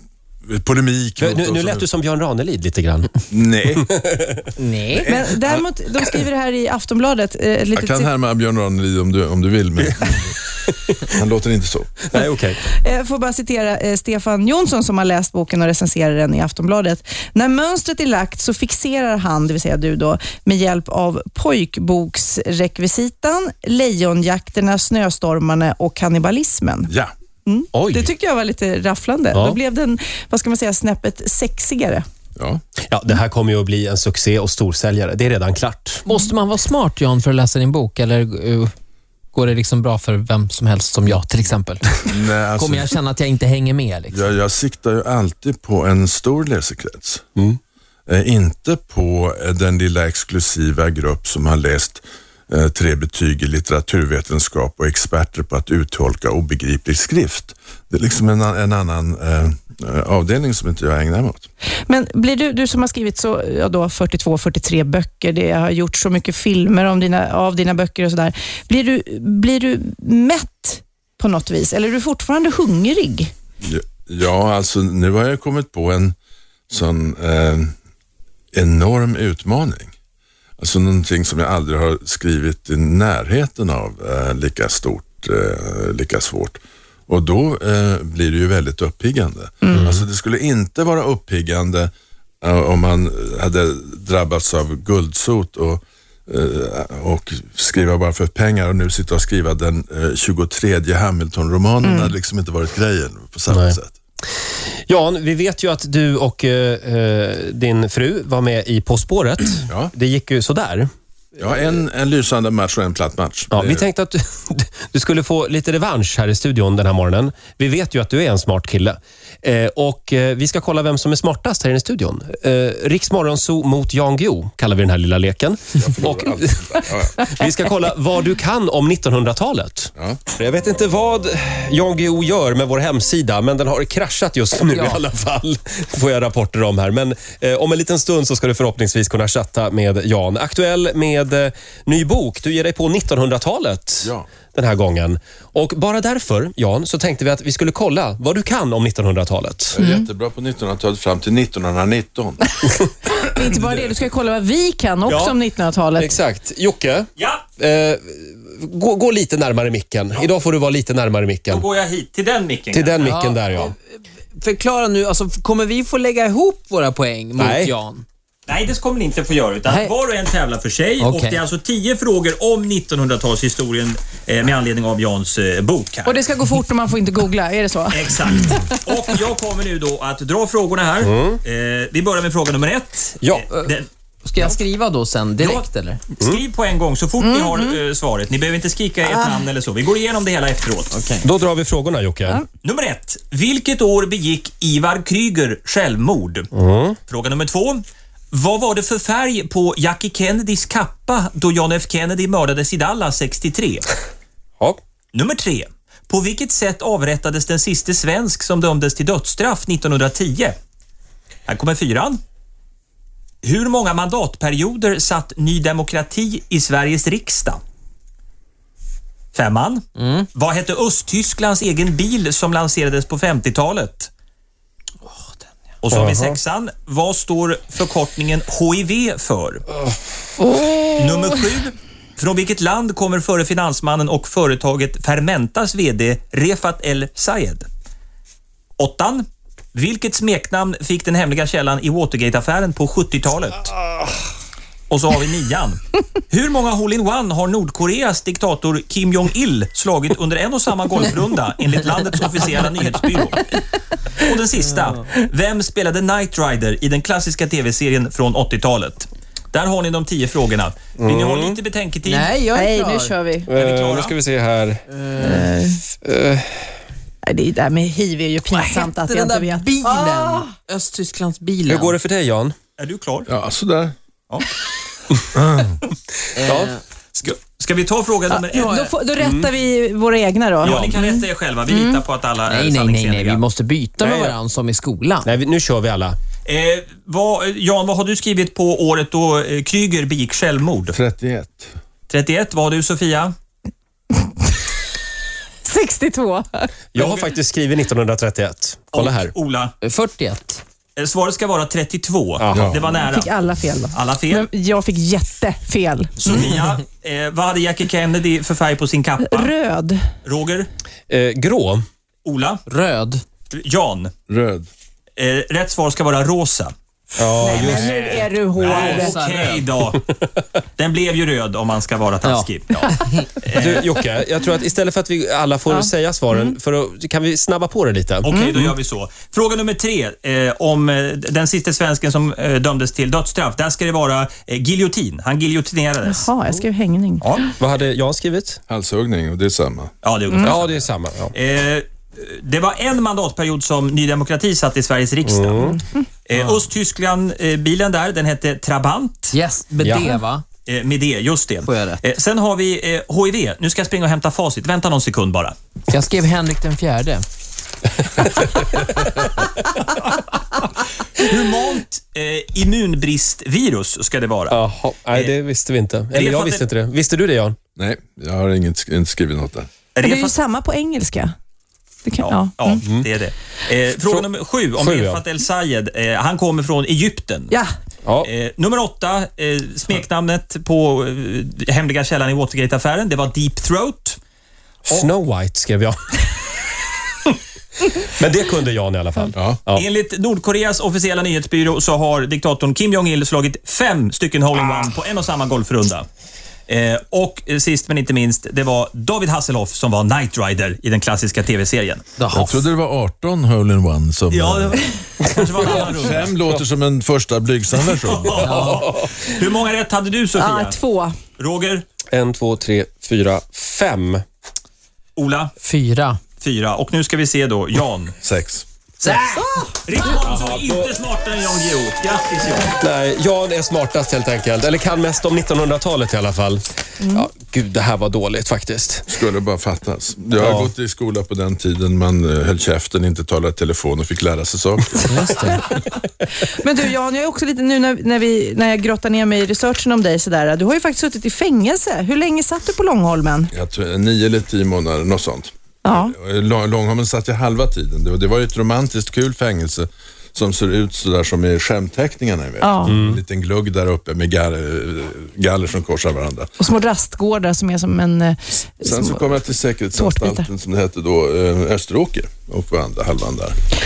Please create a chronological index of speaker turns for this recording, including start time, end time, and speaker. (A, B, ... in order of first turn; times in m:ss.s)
0:00.5-0:01.8 A
0:01.2-0:03.2 B
0:03.3-0:03.9 A
0:03.8-0:04.4 B
0:04.6-0:05.1 C
0:04.9-0:05.5 A
0:05.1-0:08.1 D
0:07.7-0:10.3 A
0:10.0-0:10.9 B
0:11.1-0:12.0 A
0:12.1-0:12.6 B
0:12.8-0:26.9 D
0:27.4-0:32.0 D
0:27.7-0:28.1 B
0:32.9-0:36.0 B
0:36.0-0:38.7 C
0:39.3-0:44.2 C
0:42.0-0:43.0 A
0:44.1-0:47.2 A
0:48.1-1:01.5 A
1:01.9-1:13.3 D
1:13.6-1:16.1 A
1:16.7-1:17.7 A
1:18.5-1:19.9 A
1:20.6-1:31.9 A
1:29.6-1:29.9 D
1:32.4-1:43.9 A
1:41.8-1:42.1 D
1:43.5-1:43.8 B
1:44.9-1:50.9 B
1:51.4-1:53.9 A
1:53.5-2:29.7 B
2:05.8-2:07.2 A
2:14.7-2:15.0 C
2:24.0-2:24.3 A
2:29.7-2:32.4 A
2:29.8-2:30.0 D
2:33.2-2:36.1 D
2:33.4-2:33.9 A
2:35.1-2:35.3 B
2:36.0-2:41.6 B
2:37.2-2:37.4 E
2:41.5-2:43.2 E
2:42.7-2:43.7 B
2:43.0-2:43.8 C
2:44.4-2:48.0 C
2:47.4-2:47.7 B
2:48.5-2:56.2 E
2:49.6-2:49.9 C
2:51.0-2:51.4 C
2:56.0-2:58.8 D
2:57.9-3:03.9 E
3:01.0-3:01.4 B
3:03.2-3:03.5 B
3:04.2-3:06.0 C
3:05.4-3:11.0 E
3:07.2-3:07.8 D
3:09.1-3:09.4 D
3:10.9-3:11.2 C
3:11.2-3:12.4 B
3:12.6-3:16.5 E
3:16.5-3:17.0 B
3:17.1-3:23.8 E
3:25.1-3:30.6 E
3:31.4-3:32.2 E
3:33.4-3:37.6 E
3:39.3-3:39.8 E
3:40.0-3:40.3 C
3:40.3-3:44.1 E
3:45.8-3:49.6 E
3:45.9-3:46.4 B
3:50.9-3:57.7 E
3:58.8-4:03.7 E
4:04.9-4:13.6 E
4:14.2-4:22.4 E
4:21.0-4:21.6 B
4:22.0-4:23.2 C
4:22.5-4:23.5 D
4:23.4-4:24.8 B
4:23.5-4:24.1 E
4:24.9-4:25.5 C
4:25.2-4:25.8 D
4:26.0-4:26.6 B
4:27.2-4:30.5 D
4:28.5-4:32.0 C
4:31.7-4:32.5 B
4:32.8-4:33.3 E
4:33.3-4:33.9 A
4:35.3-4:35.8 A
4:36.4-4:36.8 C
4:36.4-4:36.7 B
4:37.1-4:38.9 E
4:38.3-4:42.0 D
4:39.2-4:39.5 B
4:40.6-4:43.4 E
4:42.4-4:45.3 C
4:44.0-4:44.4 B
4:45.2-4:46.2 B
4:46.4-4:51.0 E
4:50.9-4:51.7 A
4:52.1-4:53.3 E
4:55.6-4:56.7 D
4:56.9-4:59.3 B
4:57.0-4:57.3 E
4:58.9-4:59.7 E
4:59.8-5:00.6 C
5:01.0-5:03.3 E
5:02.4-5:02.7 B
5:02.5-5:02.8 A
5:02.9-5:06.3 D
5:03.9-5:04.5 E
5:06.2-5:09.5 E
5:09.2-5:10.0 D
5:10.2-5:10.7 E
5:11.1-5:11.8 B
5:12.2-5:12.6 E
5:12.7-5:13.2 C
5:13.5-5:14.1 E
5:14.3-5:14.7 A
5:15.2-5:16.7 E
5:17.2-5:18.3 B
5:17.4-5:19.2 D
5:18.6-5:20.1 E
5:18.7-5:19.6 C
5:20.8-5:23.9 E
5:22.2-5:23.3 C
5:23.5-5:28.3 B
5:25.7-5:26.5 D
5:28.2-5:36.3 E
5:28.3-5:28.7 D
5:36.0-5:37.4 D
5:37.2-5:37.5 E
5:37.6-5:38.6 B
5:38.7-5:39.9 A
5:40.0-5:49.4 E
5:40.4-5:41.3 B
5:45.2-5:45.8 B
5:45.6-5:46.0 D
5:49.3-5:50.4 C
5:49.8-5:50.2 B
5:50.6-5:55.6 E
5:51.6-5:52.0 C
5:55.9-5:57.2 C
6:01.2-6:04.6 E
6:04.5-6:07.6 B
6:06.1-6:06.6 E
6:07.8-6:09.7 A
6:09.9-6:10.3 E
6:10.0-6:11.3 D
6:12.0-6:12.8 D
6:12.2-6:17.5 E
6:14.8-6:15.2 B
6:18.2-6:24.2 E
6:24.8-6:26.2 B
6:28.0-6:29.8 B
6:29.3-6:29.6 A
6:29.7-6:36.0 E
6:36.7-6:42.1 E
6:42.2-6:42.6 C
6:42.3-6:44.8 A
6:44.3-6:46.3 E
6:45.8-6:48.5 A
6:48.0-6:50.8 E
6:48.4-6:48.8 C
6:48.6-6:49.0 B
6:50.3-6:51.2 D
6:51.4-6:51.8 E
6:52.1-6:54.2 B
6:55.2-6:55.5 E
6:55.6-6:56.2 C
6:56.4-6:58.1 E
6:58.2-6:58.6 A
6:59.0-6:59.5 B
6:59.4-6:59.7 D
6:59.8-7:02.7 E
7:00.0-7:00.9 B
7:02.8-7:09.1 B
7:07.0-7:07.3 D
7:09.1-7:15.4 A
7:10.4-7:10.7 B
7:15.1-7:15.6 C
7:15.4-7:23.5 D
7:23.5-7:36.5 A
7:25.8-7:26.1 D
7:32.6-7:33.0 D
7:32.9-7:33.2 B
7:36.6-7:39.4 D
7:38.8-7:43.6 A
7:39.9-7:40.5 D